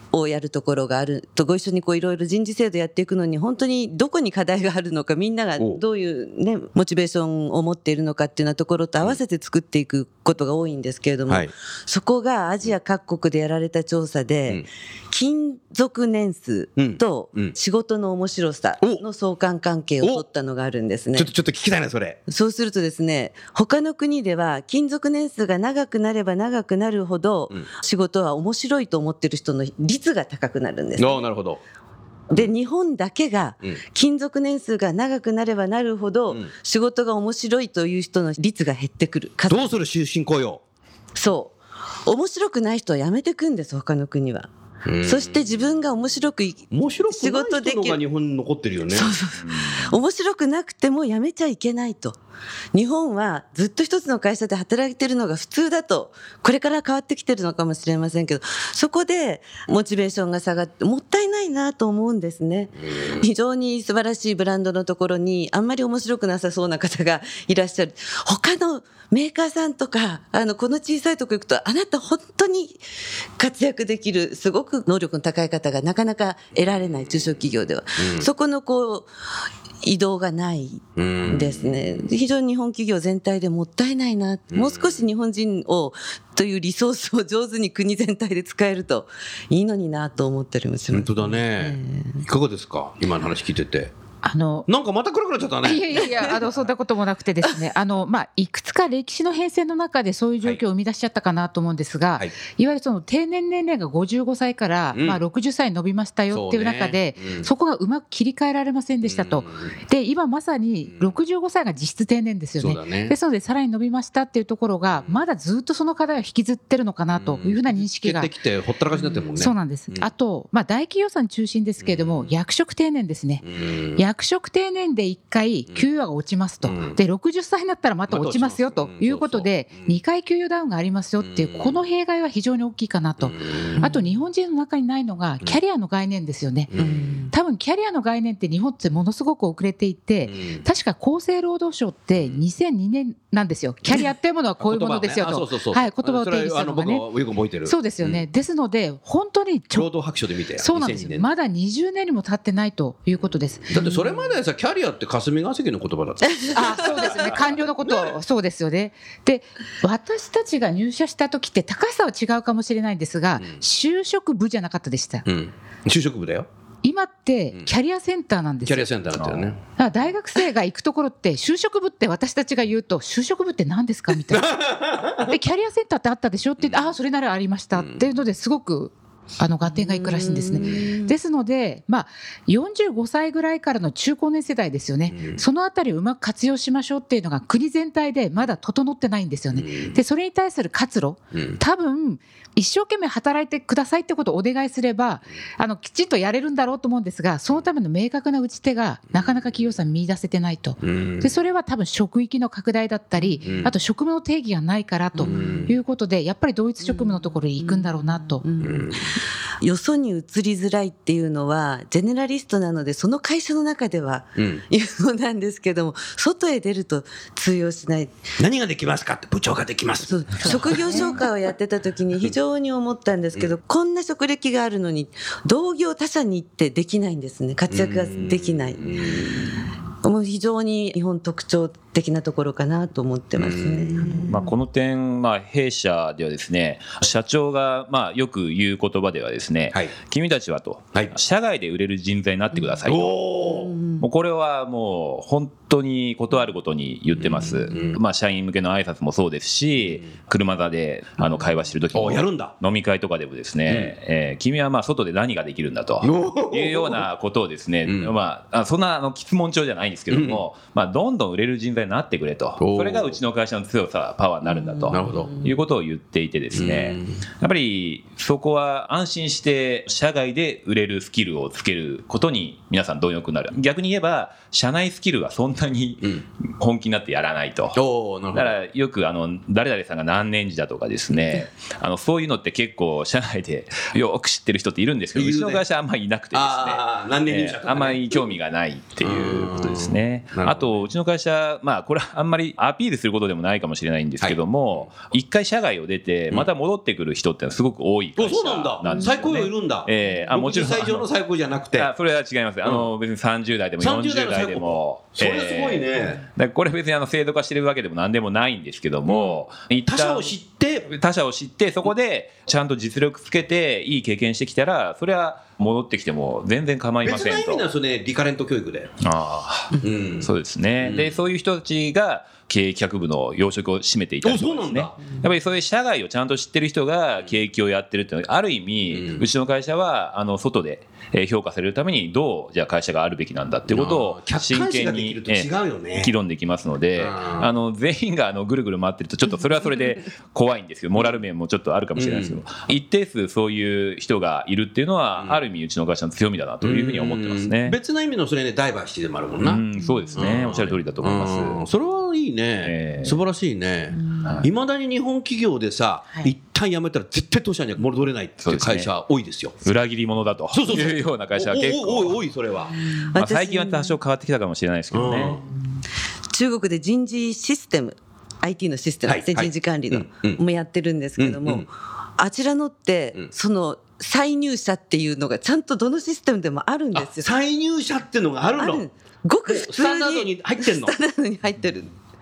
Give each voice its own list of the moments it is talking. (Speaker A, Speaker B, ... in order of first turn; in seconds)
Speaker A: 0.1-21.3, 22.3-31.2, 32.3-39.7, 41.2-44.5, 45.0-48.0, 48.9-52.2, 52.7-72.8, 73.4-79.1, 79.8-92.2, 133.8-134.1, 136.8-137.3, 153.8-154.2, 156.3-157.2, 179.7-181.1, 205.2-205.7, 206.8-218.2, 220.0-229.4, 230.0-234.5, 243.5-244.1, 264.4-265.5, 298.9-299.2, 362.7-363.9, 366.3-377.3, 378.6-381.9
Speaker B: 11.3-11.5, 16.8-17.6, 21.1-22.2, 31.0-31.6, 39.5-40.6, 44.9-45.7, 46.7-49.1, 62.8-63.2, 78.0-78.3, 81.0-82.1, 84.5-85.1, 90.9-93.9, 94.7-96.5, 104.9-105.2, 106.3-107.5, 109.0-109.8, 110.9-111.2, 112.6-113.2, 114.9-115.2, 117.1-120.1, 121.8-122.3, 123.4-124.0, 126.6-127.0, 128.1-130.0, 131.2-131.8, 133.2-133.9, 136.7-137.3, 140.2-140.6, 142.2-142.4, 144.6-148.2, 149.7-151.3, 153.7-158.1, 165.2-166.5, 168.7-169.6, 174.3-175.3, 177.7-178.1, 180.6-180.9, 185.1-185.4, 189.5-190.0, 191.3-191.6, 199.1-199.5, 200.8-201.4, 203.4-203.8, 205.2-205.8, 208.6-209.0, 214.4-214.6, 218.4-221.3, 227.7-229.6, 233.4-234.3, 242.8-243.7, 247.2-248.0, 251.9-252.6, 253.7-253.9, 256.0-257.1, 257.9-258.1, 260.1-260.4, 262.6-263.2, 264.9-265.3, 266.5-267.2, 277.7-278.6, 281.1-281.5, 285.1-285.6, 286.3-288.3, 289.0-290.8, 294.2-294.9, 298.2-301.9, 302.6-302.9, 303.8-306.2, 309.1-310.9, 317.0-318.9, 319.8-320.3, 320.8-321.2, 324.2-325.0, 328.9-329.2, 333.7-336.2, 337.0-337.5, 342.0-342.4, 346.6-359.6, 360.5-362.8, 364.9-365.5, 369.1-370.4, 371.2-371.7, 376.9-378.9, 379.5-381.0
Speaker C: 49.4-49.8, 169.2-169.5, 234.2-243.4, 244.0-277.8, 278.3-301.1, 301.7-310.4, 310.9-317.7, 319.0-347.8, 349.4-351.6, 352.6-353.2, 354.2-354.5, 358.4-358.9, 359.6-362.2, 363.1-365.4
Speaker D: 94.2-94.7, 95.6-118.3, 119.3-123.4, 124.0-136.7, 137.3-147.1, 147.7-149.9, 150.6-153.7, 156.5-165.2, 166.8-168.9, 169.8-208.4